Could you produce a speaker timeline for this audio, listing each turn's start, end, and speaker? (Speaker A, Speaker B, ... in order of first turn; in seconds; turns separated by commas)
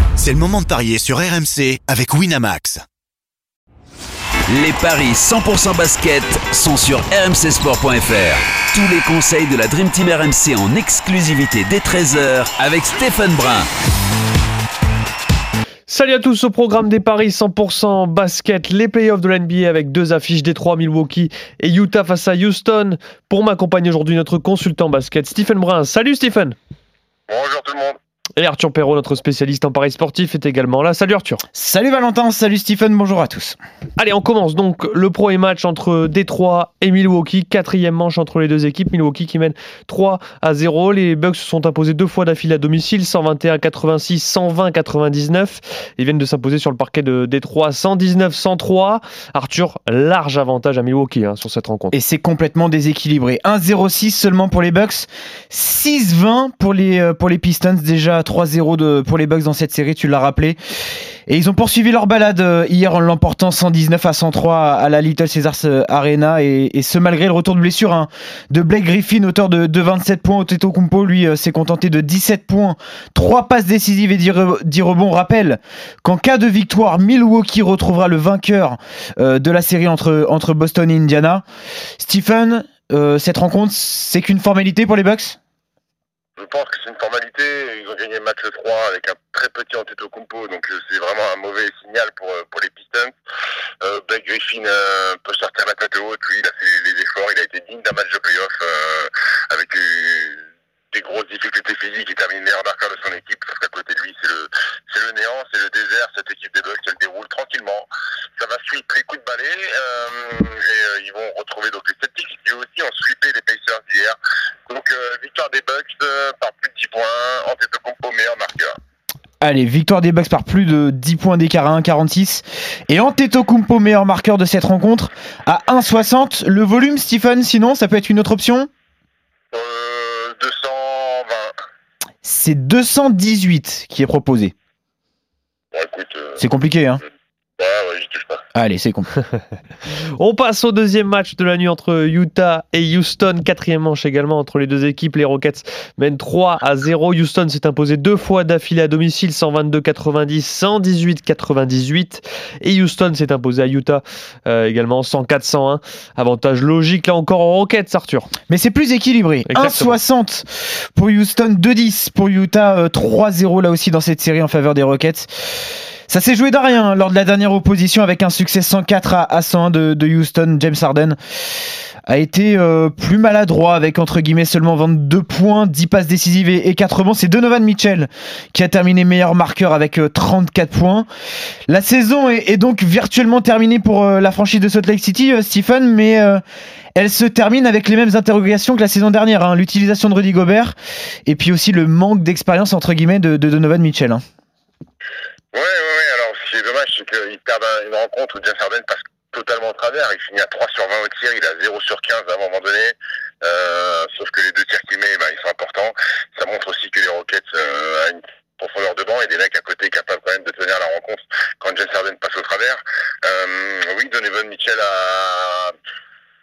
Speaker A: 0.2-2.8, Speaker B: 4.5-13.7, Speaker C: 15.9-26.5, Speaker D: 27.3-28.0, Speaker C: 28.4-31.4, Speaker E: 31.5-33.6, Speaker C: 34.0-52.0, Speaker E: 51.9-60.6, Speaker E: 61.3-81.4, Speaker E: 82.0-85.4, Speaker D: 86.4-93.1, Speaker D: 93.8-118.7, Speaker E: 119.4-128.7, Speaker D: 129.5-131.6, Speaker E: 132.2-134.5, Speaker D: 135.7-136.4, Speaker E: 136.4-137.0, Speaker D: 137.6-138.4, Speaker E: 138.5-139.1, Speaker C: 140.2-158.3, Speaker E: 158.5-165.6, Speaker C: 159.4-159.9, Speaker E: 166.1-171.2, Speaker E: 172.1-181.1, Speaker E: 181.7-186.4, Speaker E: 186.9-190.7, Speaker E: 191.2-194.2, Speaker D: 195.5-215.7